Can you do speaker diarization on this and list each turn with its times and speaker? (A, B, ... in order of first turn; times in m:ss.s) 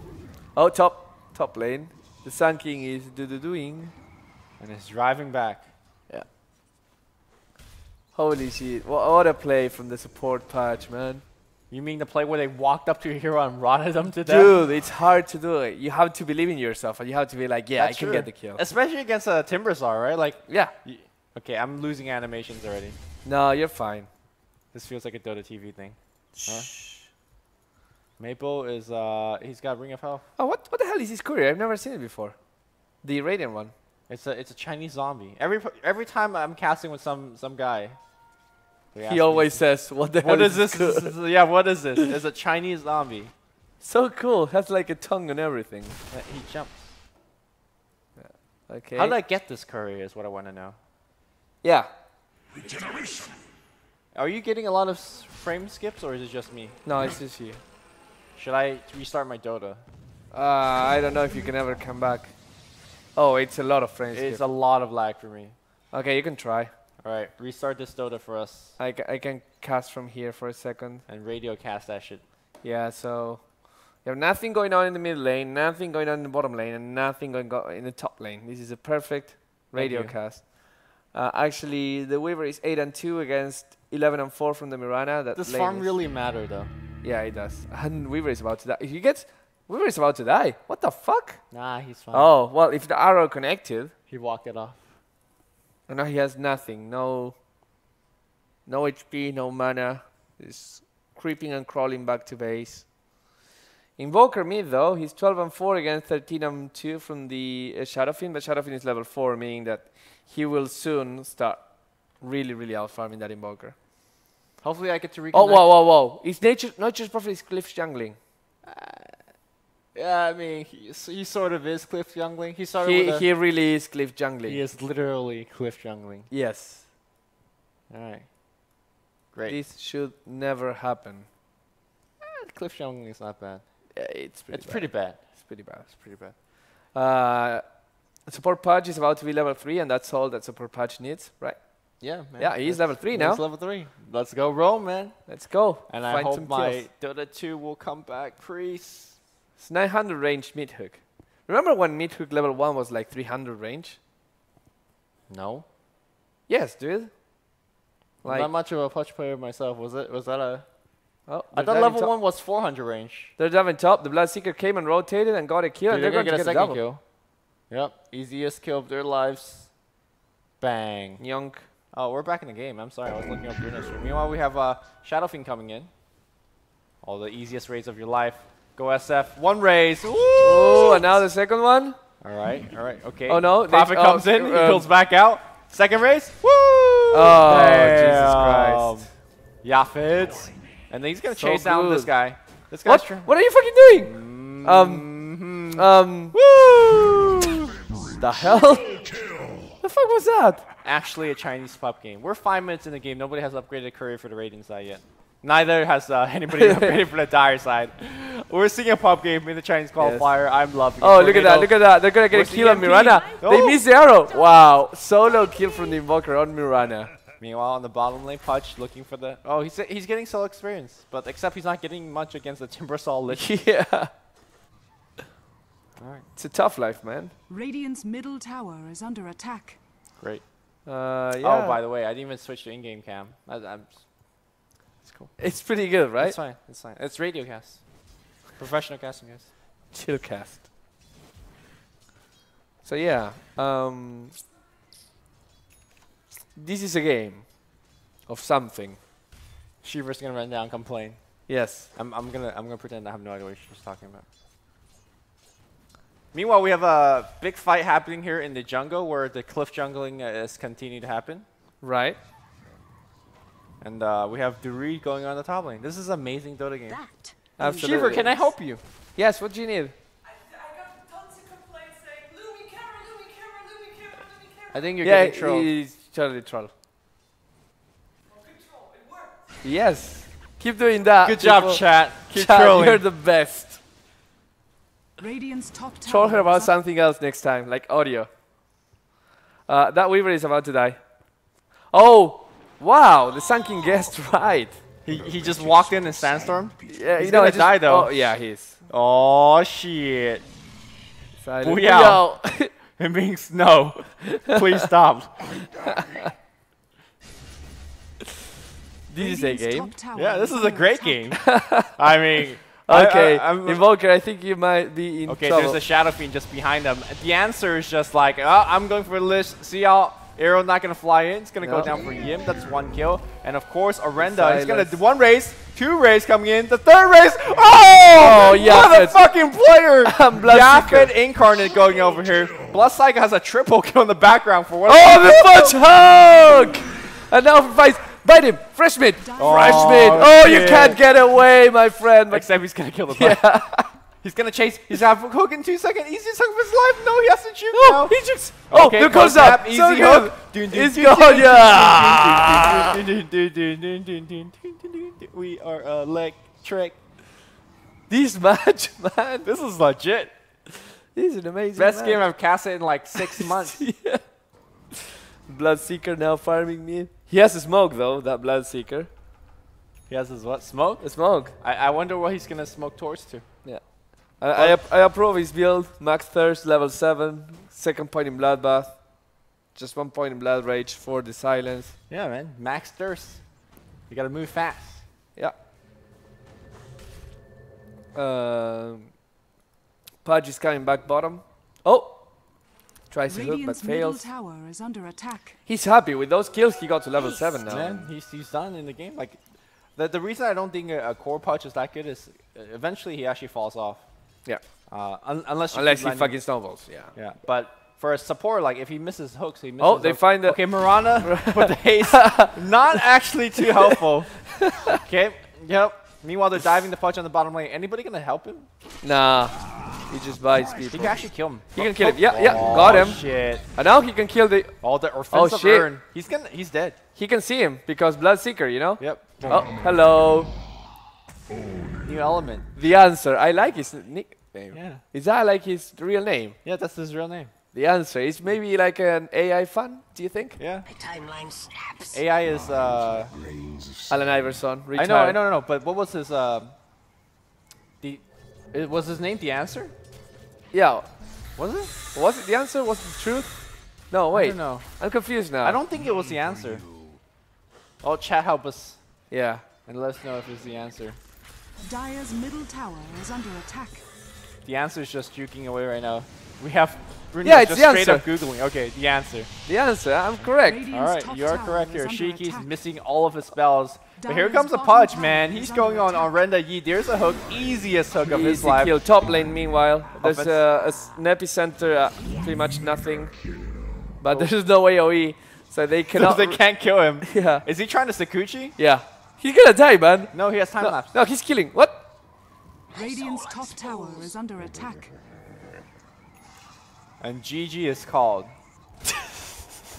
0:00.5-0:03.9 A
0:04.6-0:05.7 B
0:08.1-0:11.2 A
0:11.7-0:14.5 B
0:14.2-0:18.6 A
0:17.8-0:23.0 B
0:20.5-0:20.7 A
0:23.2-0:24.1 A
0:24.7-0:26.7 B
0:26.5-0:27.0 A
0:28.2-0:30.2 B
0:30.4-0:32.4 A
0:33.0-0:33.7 A
0:34.1-0:38.0 B
0:38.9-0:43.3 B
0:39.0-0:41.1 A
0:43.8-0:46.0 A
0:46.1-0:47.0 B
0:48.2-0:49.2 A
0:48.9-0:50.8 B
0:51.6-0:51.9 A
0:54.1-0:56.8 B
0:56.8-0:57.6 A
0:58.4-0:59.8 B
1:00.3-1:02.3 A
1:03.1-1:04.4 A
1:04.1-1:05.6 B
1:05.9-1:06.7 A
1:07.0-1:08.8 B
1:08.8-1:11.0 A
1:11.1-1:12.2 B
1:12.6-1:25.9 A
1:19.7-1:20.2 B
1:25.4-1:26.7 B
1:27.0-1:31.4 A
1:31.5-1:32.3 B
1:32.1-1:33.9 A
1:34.1-1:35.0 B
1:35.9-1:37.4 A
1:38.6-1:43.0 A
1:44.0-1:53.8 A
1:54.6-1:55.7 B
1:55.3-1:58.2 A
1:58.6-1:59.2 B
1:59.9-2:03.3 B
2:02.8-2:04.6 A
2:04.4-2:06.3 B
2:06.3-2:06.8 A
2:07.9-2:08.3 B
2:09.3-2:09.6 B
2:09.5-2:11.3 A
2:12.2-2:13.9 B
2:13.9-2:15.9 A
2:14.5-2:16.3 B
2:16.9-2:23.4 A
2:22.0-2:29.2 B
2:25.3-2:26.9 A
2:29.6-2:34.0 A
2:35.3-2:35.6 B
2:36.5-2:37.1 A
2:38.2-2:38.5 A
2:38.2-2:40.6 B
2:41.3-2:42.1 A
2:41.5-2:43.3 B
2:43.4-2:46.8 A
2:45.9-2:47.0 B
2:47.7-2:49.7 B
2:50.6-2:51.2 B
2:51.2-2:51.7 A
2:51.9-2:55.9 B
2:57.0-3:01.2 B
3:00.4-3:02.0 A
3:02.2-3:13.3 B
3:03.3-3:04.9 A
3:07.1-3:09.0 A
3:11.4-3:12.1 A
3:12.8-3:15.1 A
3:14.0-3:17.7 B
3:15.7-3:16.4 A
3:18.1-3:19.1 A
3:19.8-3:20.6 A
3:20.8-3:31.8 B
3:26.5-3:27.0 A
3:30.0-3:30.4 A
3:31.0-3:37.1 A
3:32.3-3:33.8 B
3:37.4-3:43.6 B
3:43.3-3:44.1 A
3:46.0-3:46.3 B
3:46.4-3:47.3 A
3:47.5-3:49.8 C
3:50.2-3:50.5 B
3:50.8-3:51.8 A
3:51.4-3:54.1 B
3:55.0-3:59.5 B
3:55.4-3:56.4 A
3:59.9-4:00.6 A
4:02.8-4:04.3 A
4:06.6-4:07.7 A
4:08.3-4:09.0 A
4:09.8-4:14.2 B
4:11.5-4:11.9 A
4:16.3-4:21.4 B
4:21.8-4:22.2 A
4:23.8-4:27.0 B
4:26.9-4:28.2 C
4:27.6-4:28.8 B
4:27.6-4:28.5 A
4:29.1-4:29.9 A
4:34.7-4:35.7 B
4:35.0-4:36.7 A
4:39.6-4:43.8 A
4:41.2-4:43.0 B
4:45.2-4:46.7 C
4:46.0-4:48.3 A
4:49.7-4:51.0 A
4:51.9-4:54.8 A
4:55.0-4:58.3 B
4:56.9-4:58.8 A
4:58.9-5:00.4 B
5:01.4-5:02.7 A
5:01.6-5:02.3 B
5:03.0-5:05.5 B
5:04.2-5:04.8 A
5:05.8-5:06.3 A
5:09.1-5:09.9 A
5:09.2-5:11.4 C
5:10.1-5:13.8 B
5:11.4-5:11.9 A
5:12.8-5:15.8 A
5:15.2-5:35.8 B
5:21.6-5:21.9 A
5:24.2-5:25.0 A
5:28.1-5:29.2 A
5:30.0-5:31.1 A
5:34.8-5:42.5 A
5:39.2-5:40.3 C
5:39.4-5:41.0 B
5:42.3-5:43.4 B
5:43.1-5:43.9 A
5:44.2-5:48.2 B
5:47.7-5:53.0 A
5:48.7-5:57.0 B
5:58.1-5:59.5 A
5:59.4-6:00.3 B
6:00.9-6:02.2 A
6:01.8-6:03.8 B
6:03.2-6:04.2 A
6:05.4-6:09.1 A
6:10.1-6:13.4 B
6:11.0-6:11.5 A
6:13.6-6:22.0 A
6:14.5-6:14.8 B
6:22.1-6:23.5 B
6:24.1-6:25.0 B
6:28.1-6:29.1 A
6:30.2-6:34.3 A
6:33.3-6:35.6 C
6:35.6-6:38.0 A
6:37.7-6:39.4 B
6:39.9-6:44.0 B
6:44.9-6:46.4 B
6:45.7-6:47.1 A
6:47.1-6:58.7 B
6:49.8-6:52.6 A
6:54.5-6:54.9 A
6:59.0-7:01.2 A
7:00.8-7:03.7 B
7:01.7-7:03.2 A
7:03.7-7:04.7 A
7:04.8-7:07.0 B
7:05.3-7:05.9 A
7:07.1-7:10.5 A
7:09.0-7:09.7 B
7:12.0-7:12.7 B
7:12.7-7:16.6 A
7:14.7-7:15.0 B
7:16.6-7:17.5 B
7:17.7-7:20.6 A
7:20.6-7:20.9 B
7:20.9-7:22.2 D
7:22.1-7:23.3 B
7:24.1-7:25.4 A
7:24.9-7:26.7 B
7:28.0-7:29.9 B
7:30.7-7:31.0 A
7:31.6-7:31.9 B
7:32.1-7:35.8 A
7:34.3-7:34.9 B
7:35.6-7:36.9 B
7:38.0-7:39.0 B
7:39.3-7:39.6 A
7:39.8-7:41.2 B
7:41.8-7:44.0 C
7:44.6-7:49.5 B
7:47.4-7:48.4 A
7:49.6-7:50.8 A
7:50.6-7:52.7 C
7:50.9-7:58.9 B
7:54.2-7:56.3 C
7:58.2-8:03.4 A
8:00.2-8:00.6 B
8:04.2-8:06.6 A
8:06.1-8:08.8 B
8:07.2-8:07.6 A
8:08.8-8:12.1 A
8:10.3-8:11.2 B
8:12.9-8:15.1 C
8:13.0-8:14.3 D
8:17.2-8:18.5 B